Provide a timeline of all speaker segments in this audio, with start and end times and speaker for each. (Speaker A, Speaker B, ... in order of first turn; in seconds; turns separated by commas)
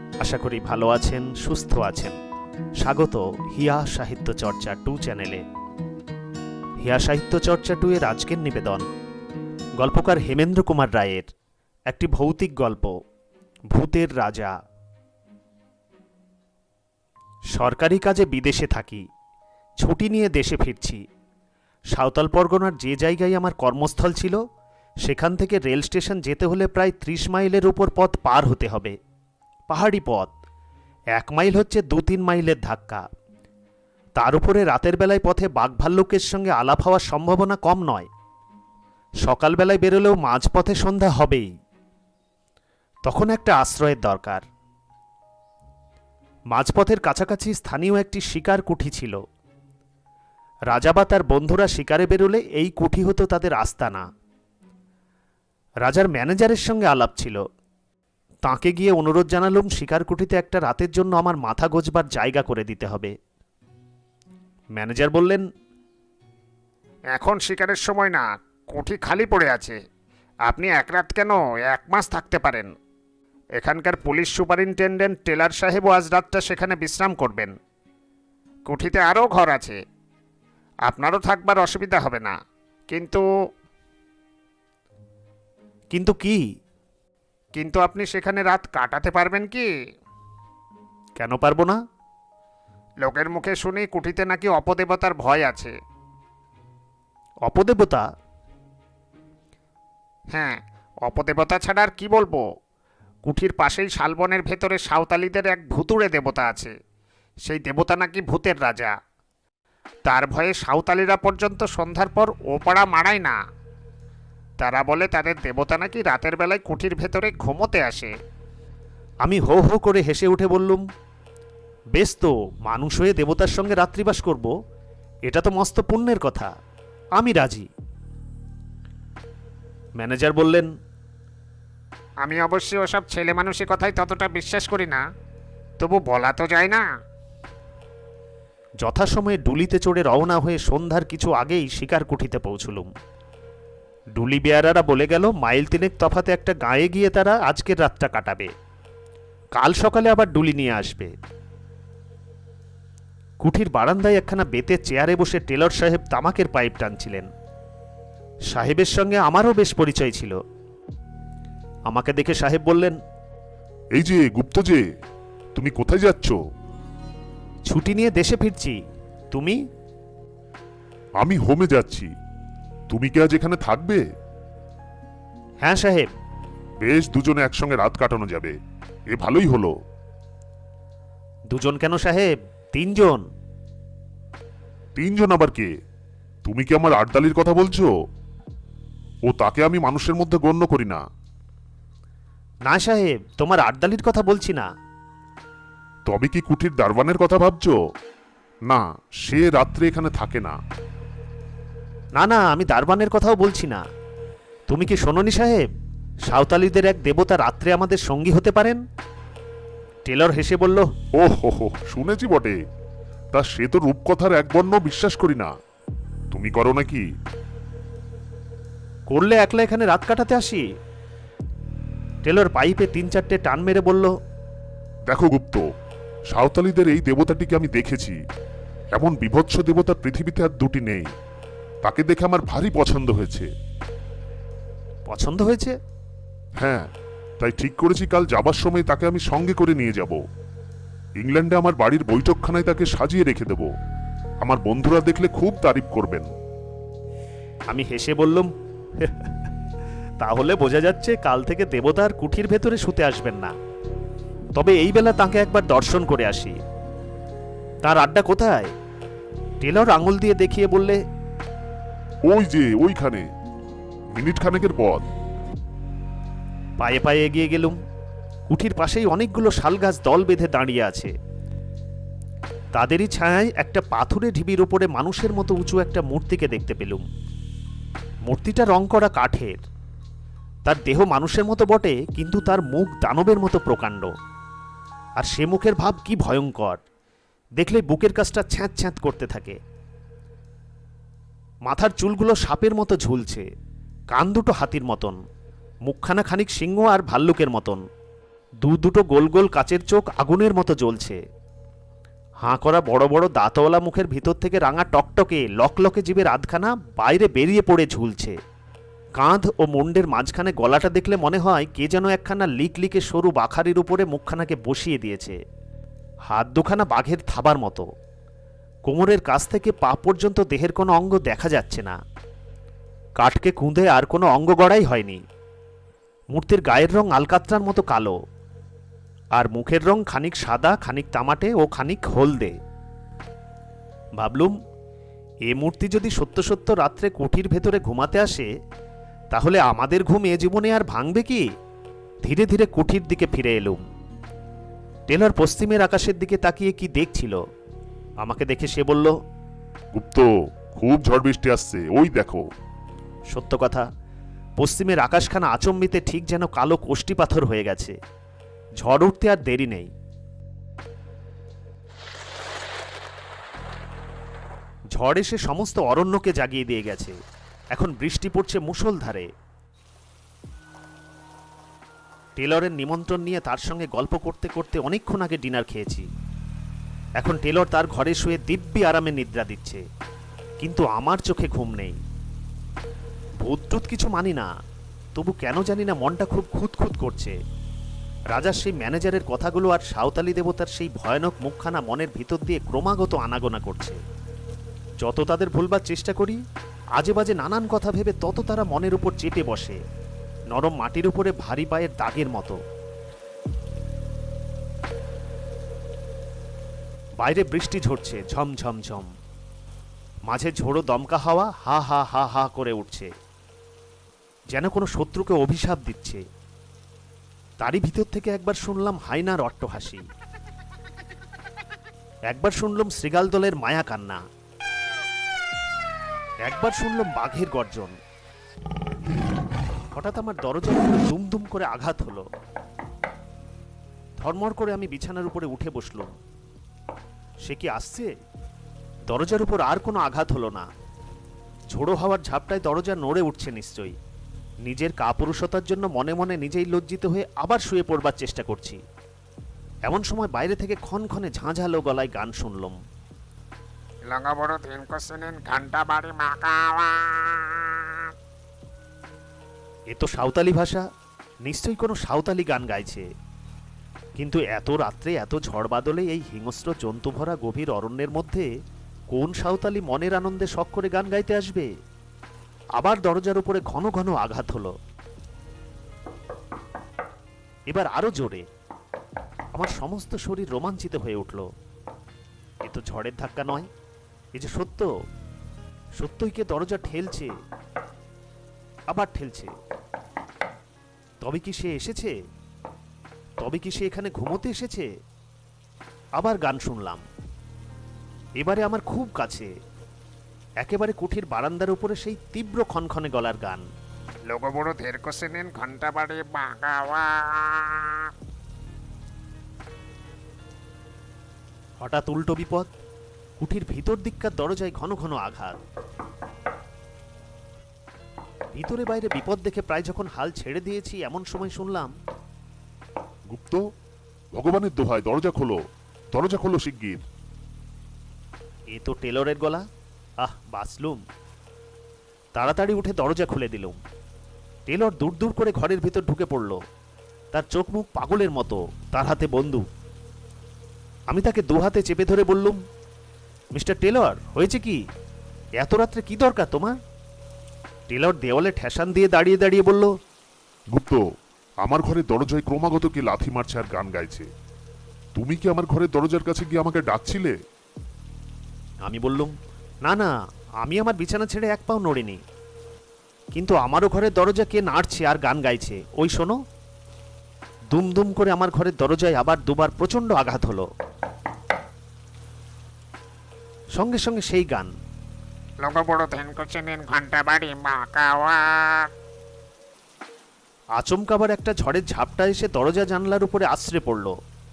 Speaker A: 0.2-2.1, Speaker A: 2.8-5.4, Speaker A: 6.8-8.8, Speaker A: 9.8-11.3, Speaker A: 11.9-12.9, Speaker A: 13.7-14.5, Speaker A: 17.5-19.0, Speaker A: 19.8-21.0, Speaker A: 21.9-24.4, Speaker A: 25.0-28.9, Speaker A: 29.7-30.3, Speaker A: 31.1-33.0, Speaker A: 34.2-38.1, Speaker A: 39.2-41.5, Speaker A: 43.0-44.4, Speaker A: 46.5-49.2, Speaker A: 50.7-54.0, Speaker A: 55.8-57.4, Speaker A: 58.5-63.1, Speaker A: 64.8-65.5, Speaker B: 67.1-69.8, Speaker B: 70.4-72.7, Speaker B: 73.6-77.5, Speaker B: 78.7-79.8, Speaker B: 80.9-82.3, Speaker B: 82.9-83.3, Speaker A: 85.9-86.4, Speaker B: 87.5-89.7, Speaker A: 91.2-91.8, Speaker B: 93.0-95.7, Speaker A: 97.5-98.0, Speaker B: 100.3-102.4, Speaker B: 103.2-106.7, Speaker B: 107.4-108.9, Speaker B: 110.0-113.4, Speaker B: 114.6-118.1, Speaker A: 119.2-120.8, Speaker A: 122.0-124.5, Speaker A: 125.3-126.5, Speaker A: 127.2-127.7, Speaker A: 130.0-130.7, Speaker B: 132.2-135.0, Speaker B: 135.8-136.8, Speaker A: 138.8-142.9, Speaker A: 144.2-148.5, Speaker A: 149.6-151.1, Speaker A: 153.4-157.3, Speaker A: 158.5-160.4, Speaker A: 161.9-163.0, Speaker C: 163.9-164.8, Speaker C: 165.6-166.4, Speaker A: 167.7-168.8, Speaker A: 169.3-169.6, Speaker C: 171.2-172.1, Speaker C: 172.9-174.0, Speaker A: 175.6-176.1, Speaker C: 176.8-178.6, Speaker C: 179.1-179.7, Speaker A: 181.5-183.2, Speaker C: 184.9-185.7, Speaker C: 186.4-187.9, Speaker C: 189.3-191.0, Speaker A: 192.7-194.7, Speaker C: 196.1-197.8, Speaker C: 198.7-200.5, Speaker A: 202.2-203.8, Speaker A: 204.7-205.6, Speaker A: 206.3-208.8, Speaker A: 210.1-210.8, Speaker C: 211.2-212.6, Speaker C: 213.3-215.5, Speaker C: 216.3-217.0, Speaker A: 219.1-220.6, Speaker A: 222.2-224.1, Speaker C: 225.1-225.6, Speaker C: 226.3-228.2, Speaker C: 228.9-231.1, Speaker C: 231.8-233.5, Speaker A: 235.1-235.8, Speaker C: 236.6-236.9, Speaker C: 237.4-240.2, Speaker C: 241.2-243.7, Speaker C: 244.4-246.3, Speaker A: 247.7-248.5, Speaker A: 249.0-249.3, Speaker A: 250.2-253.5, Speaker A: 254.6-256.6, Speaker A: 257.8-258.7, Speaker A: 259.6-261.0, Speaker C: 262.2-263.2, Speaker C: 264.1-265.1, Speaker A: 266.8-267.8, Speaker A: 268.5-271.1, Speaker A: 272.8-277.0, Speaker A: 278.2-279.6, Speaker A: 280.6-284.1, Speaker A: 285.2-286.8, Speaker A: 287.6-289.6, Speaker A: 291.6-293.4, Speaker A: 294.1-295.2, Speaker A: 295.9-297.8, Speaker A: 298.6-301.2, Speaker A: 302.4-308.4, Speaker A: 309.2-315.4, Speaker A: 316.3-317.9, Speaker A: 318.9-321.9, Speaker A: 323.2-325.2, Speaker A: 326.3-328.1, Speaker A: 329.4-332.5, Speaker A: 334.2-334.5, Speaker A: 335.5-338.5, Speaker A: 339.3-341.4, Speaker A: 342.2-343.8, Speaker A: 345.1-347.4, Speaker A: 348.2-349.1, Speaker C: 349.9-352.4, Speaker A: 353.3-353.8, Speaker A: 354.6-357.9, Speaker A: 358.8-359.9, Speaker A: 364.9-367.1, Speaker A: 367.7-369.3, Speaker A: 372.4-376.1, Speaker A: 377.2-379.8, Speaker A: 380.6-381.9, Speaker A: 383.4-384.5, Speaker A: 385.1-387.3, Speaker A: 388.3-394.0, Speaker A: 395.0-396.4, Speaker A: 397.0-399.8, Speaker A: 400.5-402.6, Speaker A: 407.2-409.1, Speaker A: 410.3-413.1, Speaker A: 414.5-416.2, Speaker A: 417.6-420.0, Speaker A: 422.3-424.2, Speaker A: 426.4-427.9, Speaker A: 429.9-432.2, Speaker A: 434.2-436.1, Speaker A: 437.4-438.1, Speaker A: 439.1-440.7, Speaker A: 441.7-443.9, Speaker A: 444.6-448.8, Speaker A: 449.9-452.8, Speaker B: 454.1-458.1, Speaker A: 459.9-460.8, Speaker A: 461.4-463.1, Speaker A: 464.2-468.5, Speaker A: 469.1-471.7, Speaker A: 472.8-474.7, Speaker A: 477.7-478.4, Speaker A: 479.5-481.5, Speaker A: 482.6-483.7, Speaker A: 484.3-484.9, Speaker A: 486.0-487.3, Speaker A: 488.9-489.5, Speaker A: 491.2-492.1, Speaker A: 493.4-494.9, Speaker A: 496.2-497.0, Speaker A: 498.4-499.5, Speaker A: 500.6-503.6, Speaker B: 504.3-508.1, Speaker A: 511.8-512.7, Speaker A: 513.4-515.6, Speaker A: 518.5-521.9, Speaker C: 523.3-523.6, Speaker C: 524.3-525.6, Speaker C: 526.1-527.0, Speaker A: 528.7-529.6, Speaker A: 530.2-531.0, Speaker A: 532.4-533.8, Speaker A: 534.7-536.6, Speaker A: 537.3-539.6, Speaker A: 541.1-542.6, Speaker A: 543.5-544.8, Speaker A: 545.6-546.8, Speaker A: 547.9-549.9, Speaker C: 550.7-551.0, Speaker C: 551.6-554.2, Speaker C: 555.1-557.4, Speaker A: 558.9-559.3, Speaker A: 560.6-562.2, Speaker A: 563.3-566.4, Speaker A: 567.7-570.7, Speaker A: 573.8-574.7, Speaker B: 575.6-578.9, Speaker A: 580.8-584.1